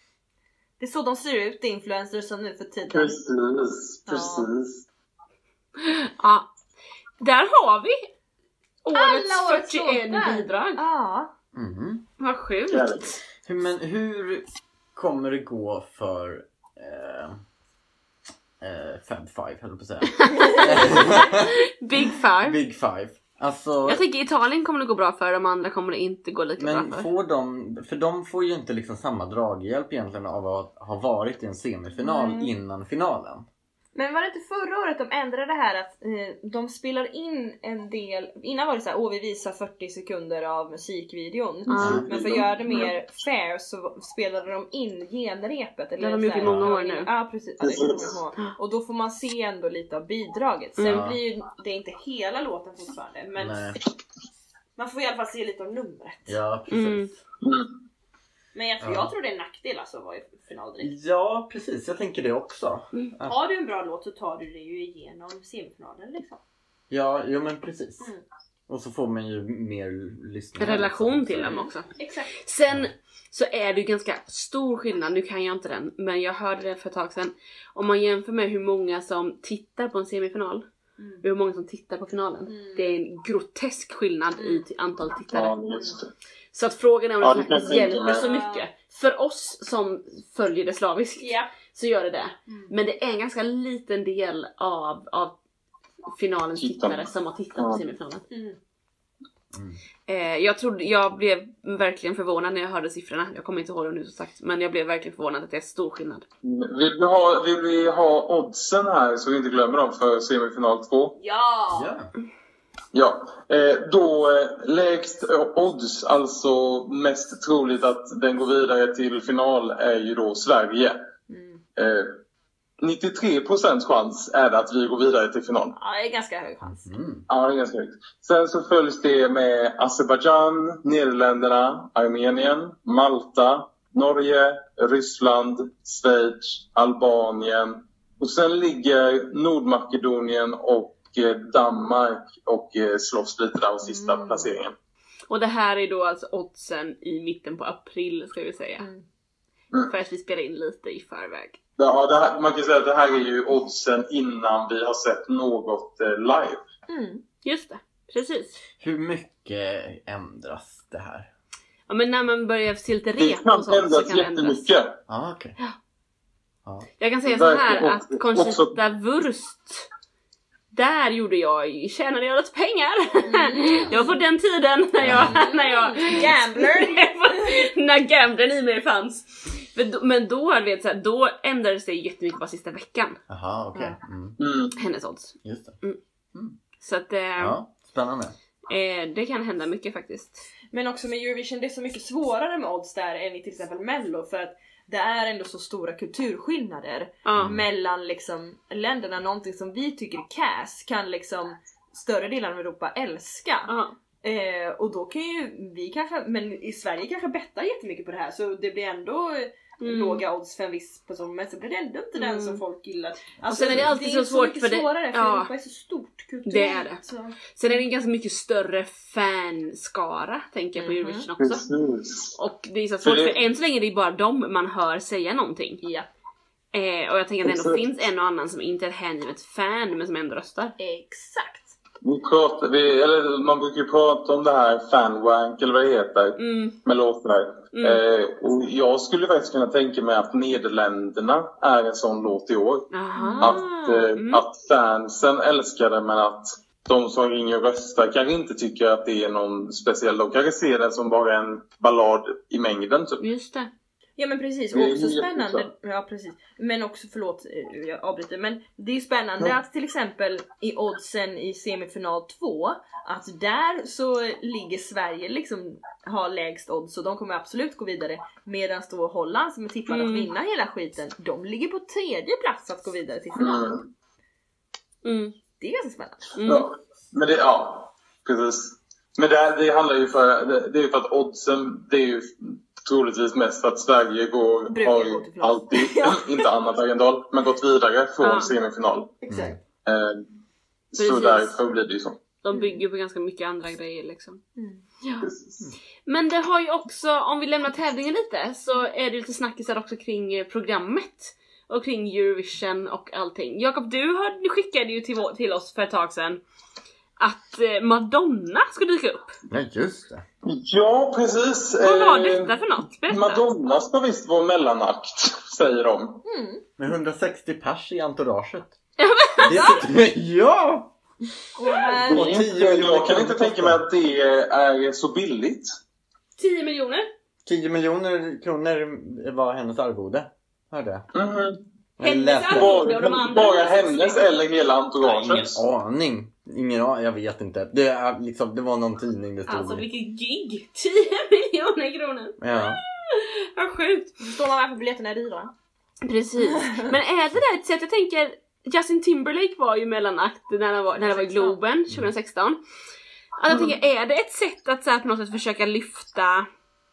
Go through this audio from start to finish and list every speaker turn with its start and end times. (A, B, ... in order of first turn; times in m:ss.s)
0:00.8-0:03.1 A
0:02.9-0:04.8 B
0:04.1-0:04.5 A
0:05.8-0:06.5 C
0:07.2-0:08.1 C
0:08.8-0:10.8 C
0:08.9-0:11.3 A
0:11.5-0:12.0 D
0:12.2-0:13.2 C
0:12.7-0:13.1 B
0:13.4-0:17.4 D
0:18.6-0:21.5 D
0:20.2-0:22.6 C
0:22.4-0:24.0 D
0:23.8-0:27.1 C
0:26.6-0:33.4 D
0:32.2-0:32.5 C
0:34.0-0:53.8 A
0:41.7-0:42.0 C
0:41.7-0:42.1 D
0:41.8-0:42.9 B
0:46.0-0:47.1 C
0:46.4-0:46.7 D
0:47.6-0:48.1 B
0:50.8-0:51.0 C
0:50.8-0:51.2 D
0:53.4-0:53.8 D
0:54.8-0:56.4 A
0:56.3-0:57.1 D
0:56.7-0:57.1 C
0:57.4-0:57.7 B
0:58.5-1:00.9 A
0:58.8-0:59.1 D
1:00.8-1:03.4 D
1:03.2-1:06.4 A
1:06.9-1:08.1 D
1:08.7-1:11.7 D
1:10.6-1:20.6 C
1:12.0-1:12.3 A
1:21.0-1:21.2 A
1:21.2-1:25.5 C
1:22.5-1:22.9 A
1:24.4-1:24.6 A
1:25.3-1:26.1 B
1:25.7-1:26.0 A
1:26.5-1:35.3 C
1:27.2-1:28.2 B
1:28.1-1:28.7 A
1:31.2-1:31.5 A
1:36.1-1:38.2 C
1:36.6-1:37.0 B
1:37.6-1:37.8 B
1:38.3-1:38.6 A
1:39.5-1:39.8 D
1:40.1-1:46.2 C
1:46.4-1:51.2 B
1:51.2-1:51.9 A
1:51.7-1:52.1 D
1:52.9-2:01.0 B
2:01.3-2:01.6 A
2:01.8-2:02.2 B
2:02.8-2:05.7 B
2:05.7-2:06.9 A
2:06.6-2:07.2 D
2:07.3-2:24.7 B
2:23.8-2:24.5 A
2:25.3-2:28.8 C
2:28.8-2:29.0 A
2:29.9-2:31.6 C
2:31.8-2:36.6 B
2:36.9-2:37.2 A
2:37.4-2:38.6 C
2:38.8-2:41.3 D
2:41.9-2:44.7 C
2:43.2-2:44.9 B
2:45.1-2:45.5 D
2:47.0-2:49.9 C
2:47.3-2:48.8 B
2:50.7-3:03.2 C
2:53.2-2:54.2 A
2:55.0-2:55.4 D
2:55.1-2:57.6 A
3:03.3-3:04.4 D
3:04.4-3:04.7 B
3:04.8-3:06.0 C
3:05.4-3:05.8 D
3:06.8-3:07.6 C
3:07.4-3:08.3 D
3:08.7-3:10.4 C
3:10.7-3:23.7 A
3:17.2-3:17.6 C
3:17.4-3:17.6 D
3:23.7-3:23.9 C
3:24.2-3:37.4 A
3:29.8-3:30.2 C
3:32.2-3:32.6 C
3:33.5-3:35.5 C
3:36.4-3:37.0 C
3:37.5-3:41.6 C
3:40.8-3:41.3 A
3:41.4-3:42.4 B
3:42.4-3:45.8 C
3:43.0-3:43.3 B
3:45.8-3:46.1 A
3:46.7-3:50.7 C
3:47.4-3:47.9 B
3:50.8-3:51.7 A
3:52.0-4:13.2 B
3:56.4-3:56.8 C
3:57.7-3:58.0 C
4:02.9-4:04.4 C
4:03.1-4:03.6 A
4:13.2-4:13.7 C
4:14.2-4:33.7 A
4:14.7-4:15.6 B
4:29.9-4:30.3 C
4:33.4-4:33.9 B
4:35.0-4:35.3 C
4:35.6-4:36.3 A
4:36.4-4:36.7 C
4:36.4-4:49.1 B
4:44.7-4:46.5 A
4:48.2-4:48.5 C
4:49.2-4:49.6 A
4:49.3-4:49.6 D
4:49.8-4:50.2 B
4:50.9-4:52.2 B
4:51.0-4:51.6 C
4:52.4-4:54.4 C
4:52.5-4:52.8 A
4:54.6-4:54.8 A
4:55.0-4:55.3 C
4:55.2-4:55.6 B
4:56.0-5:06.4 C
5:07.2-5:09.3 C
5:09.5-5:10.2 D
5:10.4-5:12.5 B
5:11.8-5:13.4 C
5:13.1-5:16.2 B
5:16.2-5:16.6 A
5:16.8-5:18.8 D
5:19.0-5:19.7 C
5:19.4-5:20.9 D
5:19.5-5:19.8 A
5:21.6-5:22.5 A
5:21.8-5:25.7 B
5:22.0-5:23.8 D
5:26.4-5:27.1 C
5:27.4-5:31.0 D
5:31.1-5:31.6 B
5:32.0-5:32.8 D
5:32.0-5:34.3 C
5:32.5-5:35.6 B
5:35.0-5:35.5 C
5:35.4-5:39.8 D
5:39.5-5:44.2 C
5:42.4-5:42.8 D
5:44.2-5:45.5 A
5:46.0-5:52.6 C
5:46.4-5:46.9 A
5:51.0-5:51.6 A
5:53.4-5:56.5 C